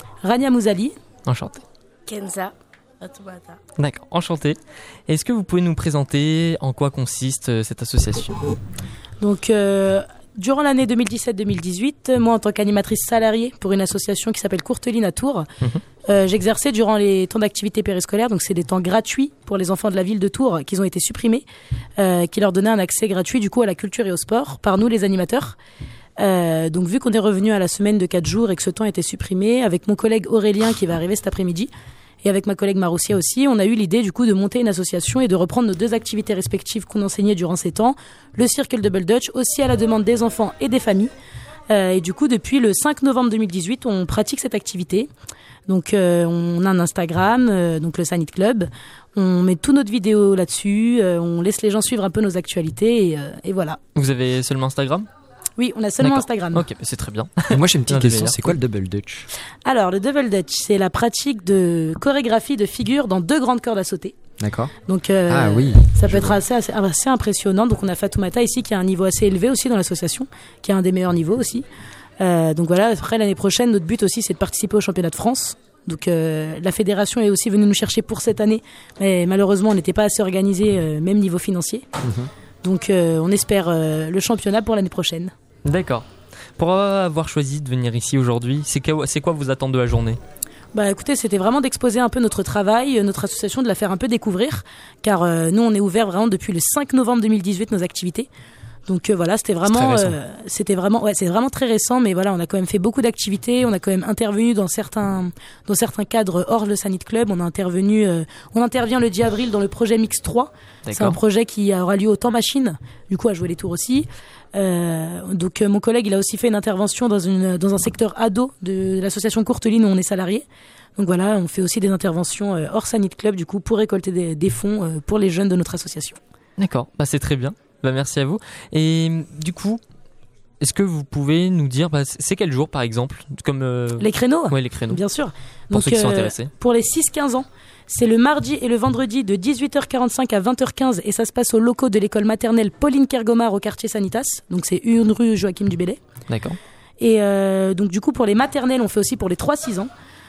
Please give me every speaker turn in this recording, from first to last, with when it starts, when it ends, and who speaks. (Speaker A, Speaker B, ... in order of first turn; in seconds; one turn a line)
Speaker A: 0.2-0.9
Speaker B: 1.3-1.6
Speaker A: 2.1-2.5
Speaker A: 3.0-3.5
Speaker B: 3.8-4.6
Speaker B: 5.1-8.5
Speaker A: 9.2-15.5
Speaker A: 16.1-21.4
Speaker A: 22.0-25.6
Speaker A: 26.2-31.7
Speaker A: 32.2-41.1
Speaker A: 41.7-45.1
Speaker A: 45.7-53.8
Speaker B: 53.9-55.1
Speaker A: 55.6-56.6
Speaker B: 56.0-58.5
Speaker C: 57.5-59.3
Speaker A: 59.6-64.1
Speaker C: 64.4-64.7
Speaker A: 64.8-71.7
Speaker C: 65.3-66.4
Speaker A: 72.2-81.9
Speaker A: 82.6-85.3
Speaker B: 85.7-86.0
Speaker B: 86.6-90.2
Speaker A: 90.7-98.3
Speaker A: 98.9-120.5
Speaker B: 99.7-100.1
Speaker B: 110.8-111.2
Speaker A: 121.0-126.2
Speaker B: 126.6-129.8
Speaker B: 130.6-135.0
Speaker A: 134.0-146.0
Speaker B: 135.7-136.5
Speaker B: 146.3-146.6
Speaker A: 147.0-149.9